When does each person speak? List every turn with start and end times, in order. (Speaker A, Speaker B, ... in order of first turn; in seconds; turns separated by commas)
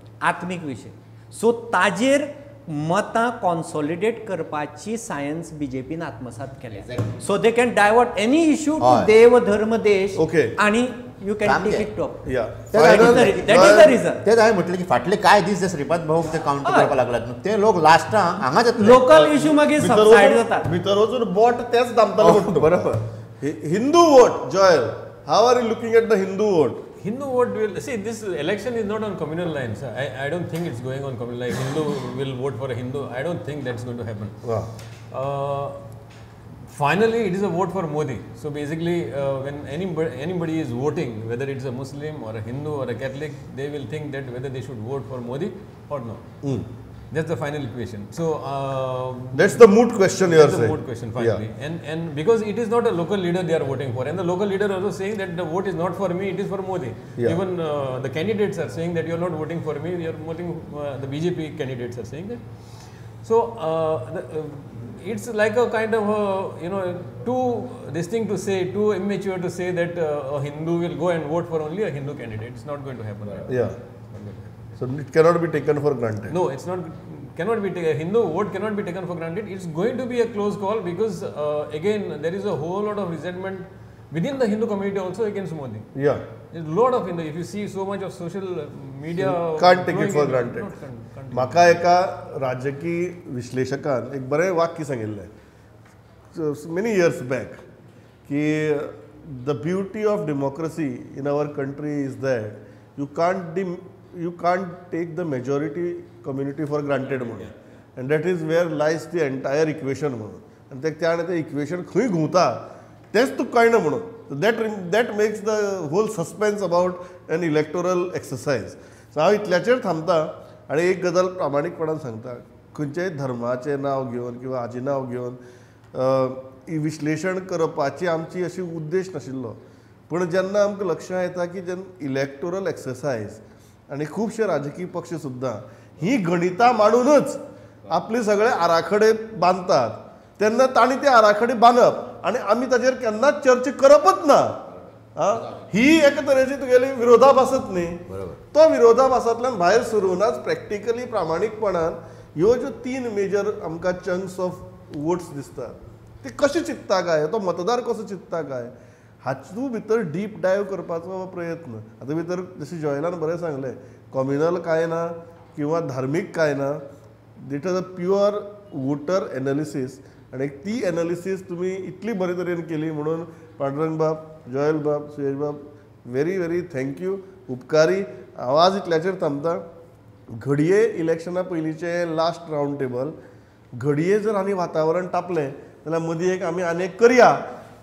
Speaker A: 0.2-14.2, Speaker B: 8.8-9.1, Speaker C: 10.2-10.6, Speaker B: 11.4-11.9, Speaker C: 12.2-13.9, Speaker B: 12.7-19.4, Speaker A: 16.6-16.9, Speaker A: 18.8-20.7, Speaker C: 19.3-26.8, Speaker B: 22.2-22.8, Speaker D: 27.0-34.4, Speaker C: 34.5-34.7, Speaker D: 35.1-35.8, Speaker D: 36.7-46.4, Speaker D: 47.1-49.6, Speaker C: 49.3-51.4, Speaker D: 50.2-74.6, Speaker C: 73.5-73.8, Speaker C: 74.8-76.3, Speaker D: 76.3-85.9, Speaker C: 86.0-86.2, Speaker D: 86.5-91.8, Speaker C: 89.2-90.7, Speaker C: 91.3-95.3, Speaker C: 96.3-97.6, Speaker C: 98.3-125.4, Speaker C: 125.9-144.6, Speaker C: 145.2-166.8, Speaker B: 148.1-148.4, Speaker C: 167.4-179.7, Speaker C: 180.3-183.2, Speaker C: 183.7-187.4